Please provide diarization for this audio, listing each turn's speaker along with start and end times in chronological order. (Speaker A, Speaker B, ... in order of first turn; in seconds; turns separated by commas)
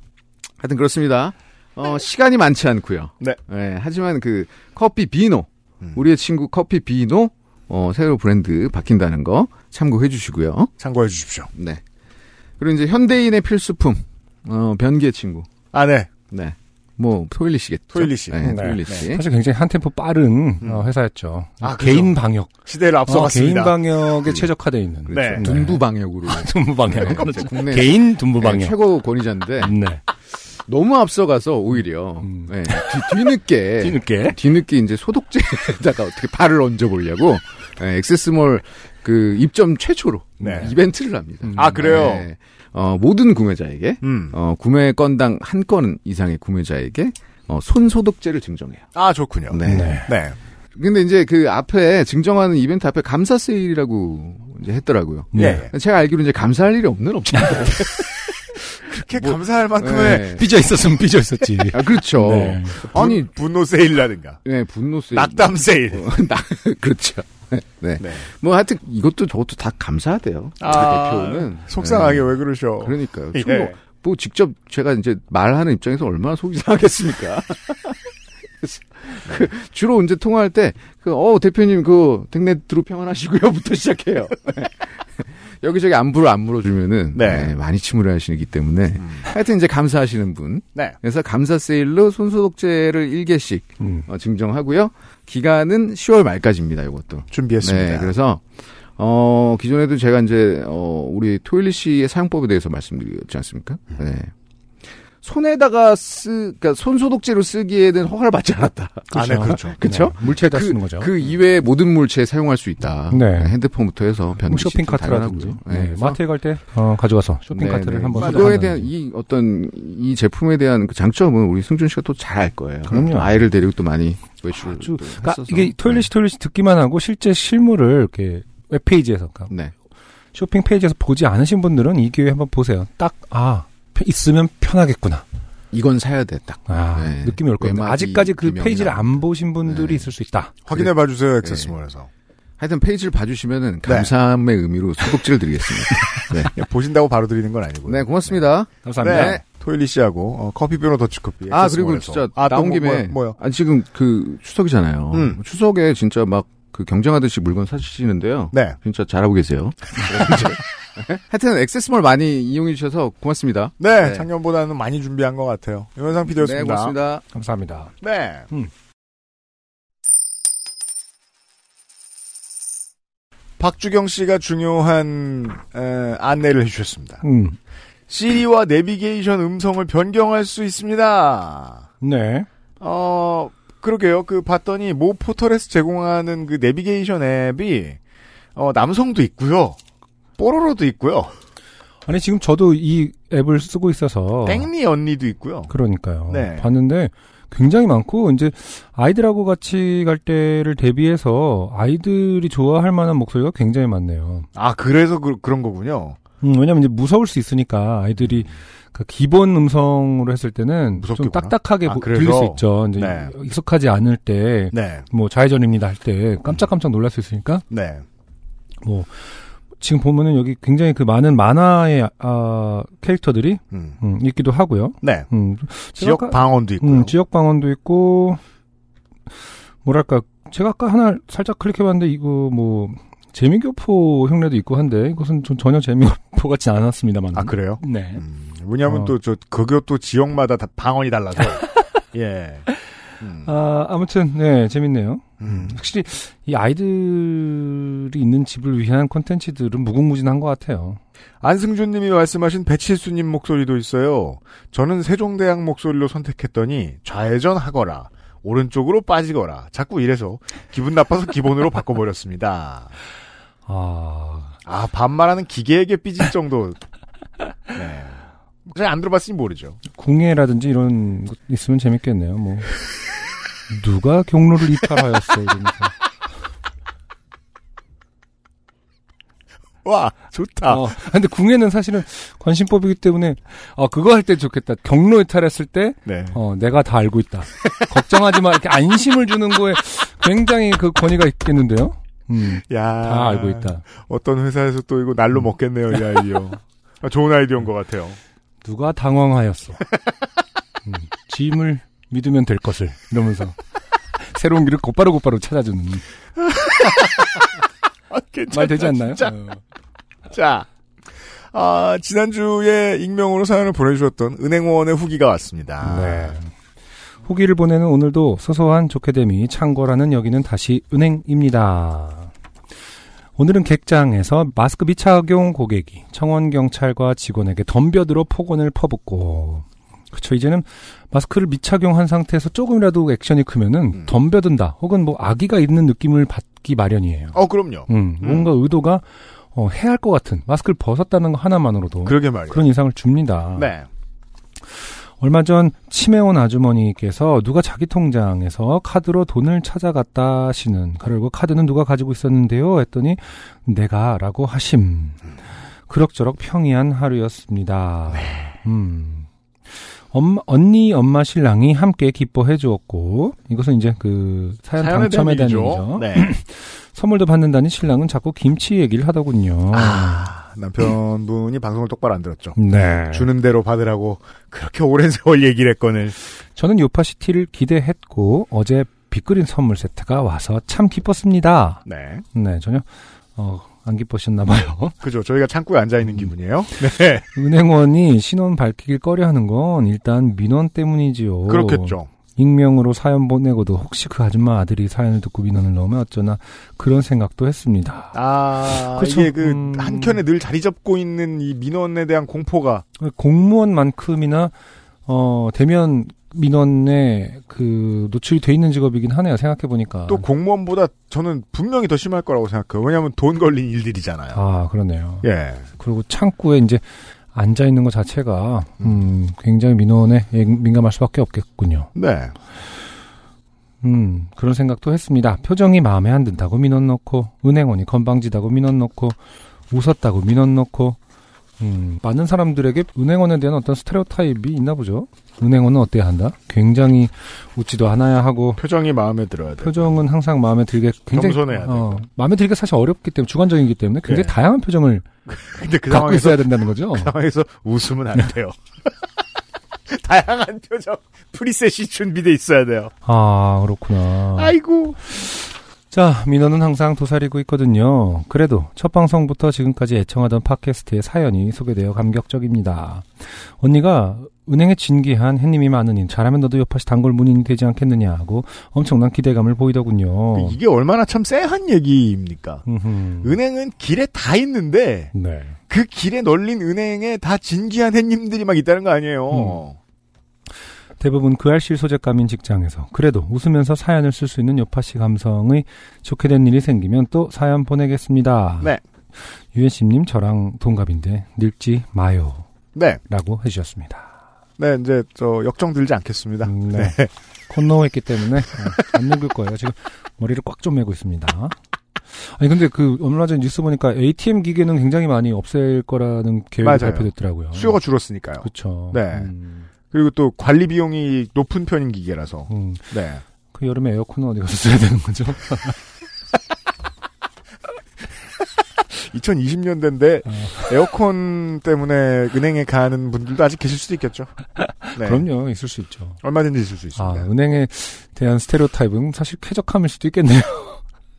Speaker A: 0.6-10.7, Speaker B: 10.8-11.5, Speaker A: 11.5-11.8, Speaker A: 12.6-15.5, Speaker B: 15.7-16.1, Speaker A: 16.3-19.2, Speaker B: 17.9-19.0, Speaker C: 18.4-22.5, Speaker B: 20.6-20.9, Speaker B: 21.6-23.8, Speaker C: 23.1-28.7, Speaker B: 25.1-25.5, Speaker A: 25.1-29.7, Speaker B: 27.0-27.4, Speaker C: 29.6-30.0, Speaker A: 30.6-48.9, Speaker C: 32.2-33.1, Speaker C: 33.8-34.4, Speaker B: 40.4-40.7, Speaker C: 40.4-40.7, Speaker C: 41.5-42.0, Speaker B: 41.5-42.3, Speaker B: 44.0-44.4, Speaker B: 48.9-50.3, Speaker A: 49.5-50.0, Speaker C: 49.7-50.1, Speaker A: 50.8-58.6, Speaker C: 55.3-55.7, Speaker B: 55.4-55.7, Speaker B: 58.8-60.3, Speaker A: 59.1-60.5, Speaker C: 60.2-62.8, Speaker A: 61.7-63.2, Speaker B: 62.8-64.4, Speaker A: 64.4-78.0, Speaker B: 65.1-66.1, Speaker B: 68.0-68.2, Speaker B: 70.6-73.7, Speaker A: 78.6-98.4, Speaker B: 87.1-87.5, Speaker C: 93.8-94.1, Speaker B: 97.3-98.1, Speaker A: 99.0-104.3, Speaker A: 105.2-116.2, Speaker C: 109.1-111.1, Speaker B: 109.1-109.8, Speaker C: 113.1-113.5, Speaker C: 114.5-118.9, Speaker A: 117.5-126.1, Speaker B: 118.2-118.6, Speaker C: 122.9-123.4, Speaker C: 124.5-129.5, Speaker C: 130.3-135.2, Speaker A: 135.7-140.1, Speaker C: 136.7-140.5, Speaker B: 140.7-142.1, Speaker A: 140.7-141.7, Speaker A: 142.6-146.5, Speaker B: 143.8-144.1, Speaker B: 146.5-148.5, Speaker A: 147.9-149.4, Speaker C: 148.8-149.4, Speaker B: 149.0-153.4, Speaker A: 151.5-164.3, Speaker B: 155.1-155.4, Speaker B: 158.5-158.8, Speaker B: 163.8-166.9, Speaker A: 166.3-167.2, Speaker C: 167.3-167.9, Speaker B: 168.0-168.5, Speaker B: 173.6-177.2, Speaker C: 177.2-177.6, Speaker B: 178.1-181.8, Speaker C: 182.0-182.5, Speaker B: 182.8-188.0, Speaker B: 188.6-189.8, Speaker B: 190.4-191.3, Speaker C: 192.1-194.7, Speaker B: 194.4-195.7, Speaker C: 195.7-204.5, Speaker B: 196.3-196.7, Speaker B: 204.5-206.2, Speaker C: 206.4-217.6, Speaker B: 208.2-208.5, Speaker B: 211.0-213.3, Speaker B: 214.7-215.1, Speaker B: 217.7-218.0, Speaker C: 218.8-219.2, Speaker C: 219.8-228.4, Speaker B: 223.7-224.0, Speaker B: 225.0-225.3, Speaker B: 225.9-227.1, Speaker C: 229.8-238.2, Speaker B: 237.3-242.7, Speaker C: 238.9-239.1, Speaker B: 243.2-243.5, Speaker C: 243.4-251.0, Speaker B: 245.4-245.8, Speaker B: 251.4-262.9, Speaker C: 263.6-264.6, Speaker B: 264.6-266.8, Speaker B: 267.7-269.8, Speaker C: 269.9-272.7, Speaker C: 273.7-275.9, Speaker B: 279.8-280.9, Speaker C: 280.6-293.8, Speaker B: 286.1-286.4, Speaker B: 292.7-298.2, Speaker C: 298.6-299.8, Speaker C: 300.9-303.6, Speaker C: 304.2-306.0, Speaker B: 306.4-307.5, Speaker B: 308.1-309.4, Speaker C: 308.5-309.6, Speaker B: 310.3-310.7, Speaker B: 311.5-316.4, Speaker C: 315.8-316.5, Speaker C: 317.2-322.3, Speaker C: 323.4-343.7, Speaker B: 337.3-338.5, Speaker B: 342.0-342.6, Speaker B: 343.5-343.9, Speaker C: 345.2-355.2, Speaker C: 355.9-359.3, Speaker B: 358.1-358.5, Speaker C: 360.1-370.3, Speaker B: 364.8-366.3, Speaker B: 369.7-376.2, Speaker C: 372.6-373.3, Speaker C: 376.6-381.8, Speaker B: 381.9-382.2, Speaker C: 382.3-384.9, Speaker B: 385.0-387.2, Speaker C: 387.3-398.1, Speaker B: 391.5-392.1, Speaker B: 398.1-402.8, Speaker C: 398.7-400.2, Speaker C: 403.0-404.5, Speaker C: 405.1-410.2, Speaker B: 410.1-414.4, Speaker C: 414.3-415.2, Speaker B: 415.2-415.6, Speaker C: 415.8-416.8, Speaker C: 417.3-421.9, Speaker B: 418.8-419.1, Speaker B: 421.9-422.3, Speaker C: 423.8-429.2, Speaker C: 429.7-431.0, Speaker C: 431.6-438.6, Speaker B: 438.6-439.9, Speaker C: 439.6-445.1, Speaker B: 441.1-442.0, Speaker B: 444.1-444.4, Speaker B: 445.3-448.6, Speaker C: 445.9-447.1, Speaker B: 449.9-452.9, Speaker C: 453.0-454.6, Speaker B: 454.3-455.0, Speaker C: 455.1-470.6, Speaker B: 470.3-472.6, Speaker C: 472.6-473.4, Speaker B: 473.2-475.1, Speaker C: 475.1-475.6, Speaker B: 475.7-479.8, Speaker C: 479.3-479.6, Speaker C: 481.0-488.7, Speaker C: 489.5-492.4, Speaker B: 492.7-493.0, Speaker C: 493.1-494.1, Speaker B: 494.6-497.1, Speaker C: 496.4-496.9, Speaker C: 497.5-501.5, Speaker C: 502.1-507.8, Speaker B: 506.6-509.3, Speaker C: 508.4-509.7, Speaker B: 509.9-513.2, Speaker C: 512.5-512.9, Speaker C: 513.5-515.8, Speaker B: 518.9-524.3, Speaker C: 520.3-520.7, Speaker C: 524.6-526.2, Speaker B: 524.9-525.2, Speaker B: 526.2-527.3, Speaker C: 527.0-530.8